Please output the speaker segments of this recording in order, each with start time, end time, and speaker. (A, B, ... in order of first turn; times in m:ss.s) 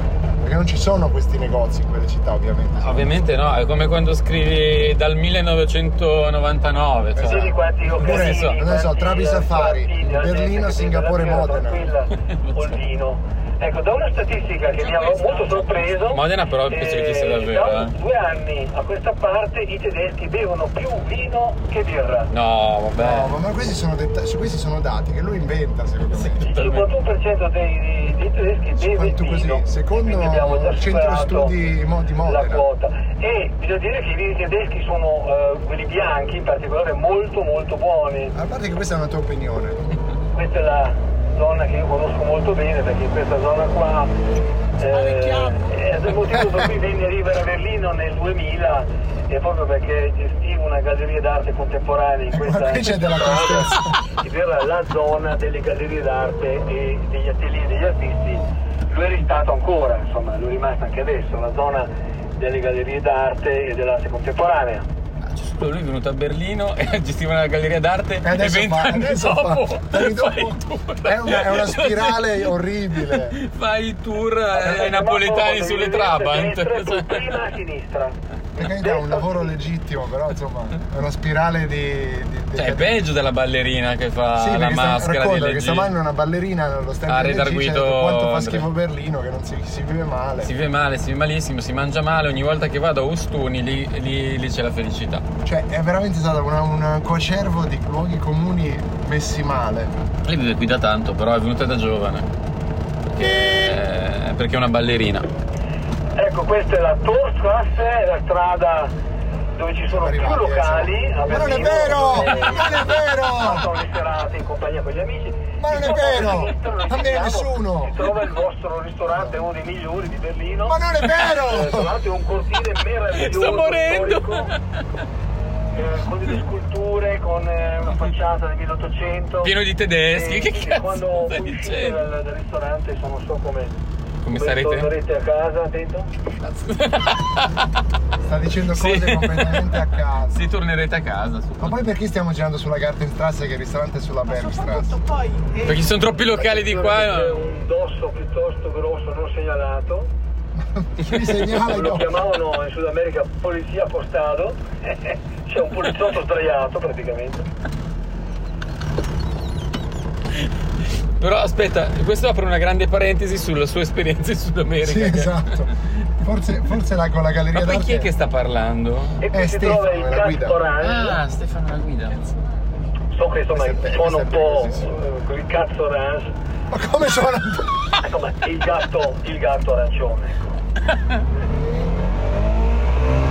0:00.4-0:03.3 A
0:02.8-0:08.6 B
0:07.2-0:11.9 A
0:07.2-0:22.3 C
0:12.3-0:12.8 B
0:14.8-0:17.9 B
0:22.3-0:23.3 B
0:23.0-0:26.5 A
0:26.1-0:26.9 B
0:26.5-0:31.6 C
0:28.8-0:32.7 A
0:32.2-0:38.3 C
0:38.3-0:39.8 A
0:40.3-0:44.1 C
0:44.8-1:04.9 C
0:44.8-0:45.7 D
0:52.3-0:54.0 A
1:05.2-1:17.5 B
1:08.2-1:13.4 A
1:14.5-1:18.2 C
1:18.6-1:23.0 A
1:18.8-1:19.5 C
1:22.6-1:25.9 B
1:24.4-1:30.6 A
1:27.1-1:28.7 B
1:30.4-1:35.2 B
1:35.4-1:40.0 A
1:40.3-1:42.3 B
1:43.1-1:45.3 B
1:46.2-1:48.9 C
1:49.6-2:04.5 C
1:49.9-1:53.7 A
1:55.6-1:58.0 A
2:00.7-2:01.9 A
2:03.1-2:04.6 B
2:05.7-2:09.5 C
2:09.4-2:12.0 B
2:10.1-2:13.8 C
2:14.2-2:14.9 B
2:14.3-2:16.1 C
2:16.4-2:17.6 B
2:18.2-2:20.5 A
2:18.7-2:21.8 B
2:21.6-2:25.0 A
2:24.3-2:26.0 D
2:25.6-2:27.4 B
2:26.4-2:30.1 C
2:30.6-2:32.1 A
2:31.5-2:37.5 C
2:41.2-2:45.9 B
2:44.8-2:48.1 A
2:47.5-2:49.2 B
2:49.2-2:51.2 C
2:49.3-2:50.6 A
2:50.8-2:52.3 B
2:53.1-2:56.4 C
2:53.5-2:54.9 A
2:56.7-2:58.0 A
2:58.0-3:00.5 C